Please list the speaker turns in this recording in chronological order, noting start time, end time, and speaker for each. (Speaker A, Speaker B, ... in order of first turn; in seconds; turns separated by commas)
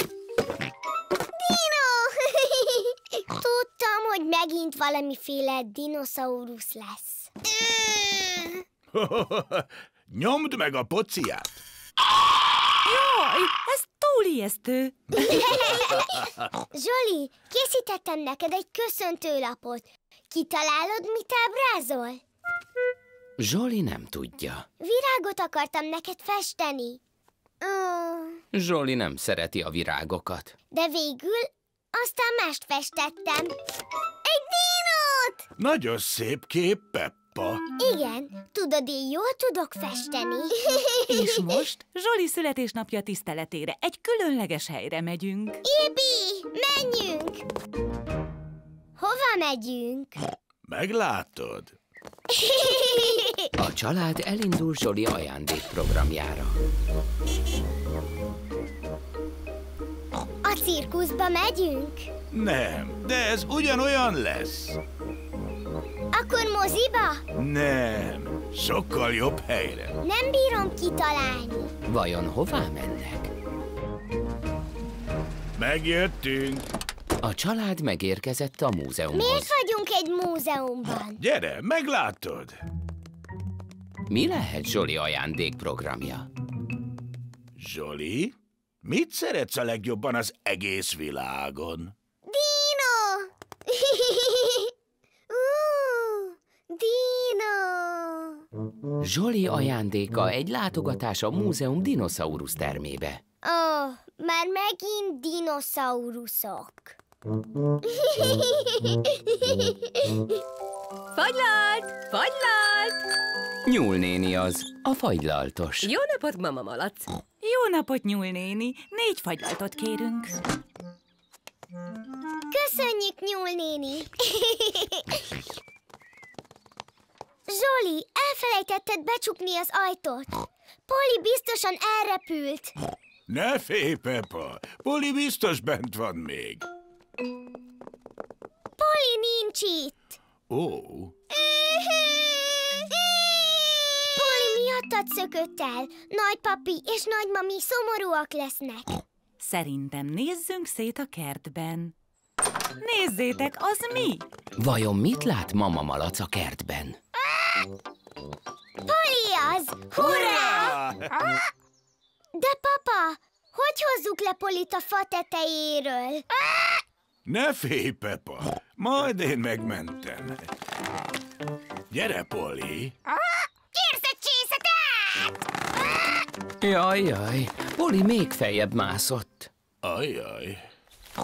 Speaker A: 1.4-8.5, Speaker B: 8.9-11.5, Speaker C: 12.9-15.0, Speaker A: 15.2-22.2, Speaker D: 23.4-24.7, Speaker A: 24.8-27.0, Speaker A: 27.6-28.4, Speaker D: 28.5-30.6, Speaker A: 30.7-33.5, Speaker A: 34.2-35.4, Speaker B: 35.6-37.6, Speaker A: 37.8-41.1, Speaker C: 41.1-45.6, Speaker A: 45.6-47.5, Speaker A: 49.0-50.2, Speaker B: 50.7-51.8, Speaker A: 52.3-53.4, Speaker D: 53.6-56.6, Speaker A: 60.4-62.1, Speaker B: 62.3-64.8, Speaker A: 66.1-67.2, Speaker B: 67.4-70.0, Speaker A: 70.0-71.7, Speaker D: 71.9-73.3, Speaker B: 75.6-76.7, Speaker D: 77.2-79.5, Speaker A: 79.1-81.2, Speaker B: 81.2-82.6, Speaker D: 84.1-86.3, Speaker B: 87.6-91.9, Speaker A: 92.3-94.6, Speaker A: 95.3-98.2, Speaker D: 99.0-103.2, Speaker A: 103.4-107.0, Speaker A: 108.1-108.4, Speaker E: 111.2-113.0, Speaker D: 113.6-115.9, Speaker E: 115.8-117.1, Speaker C: 117.4-120.4, Speaker A: 122.5-125.0, Speaker A: 127.5-132.7, Speaker B: 133.3-136.6, Speaker A: 138.8-140.0, Speaker B: 140.5-141.1, Speaker A: 141.7-142.1, Speaker A: 144.2-149.0, Speaker C: 149.4-151.9, Speaker C: 152.8-154.2, Speaker D: 154.6-157.0, Speaker A: 158.9-160.8, Speaker A: 162.3-166.3, Speaker B: 167.3-170.4, Speaker B: 171.9-172.9, Speaker A: 173.8-174.4, Speaker D: 176.6-179.5, Speaker B: 179.8-180.6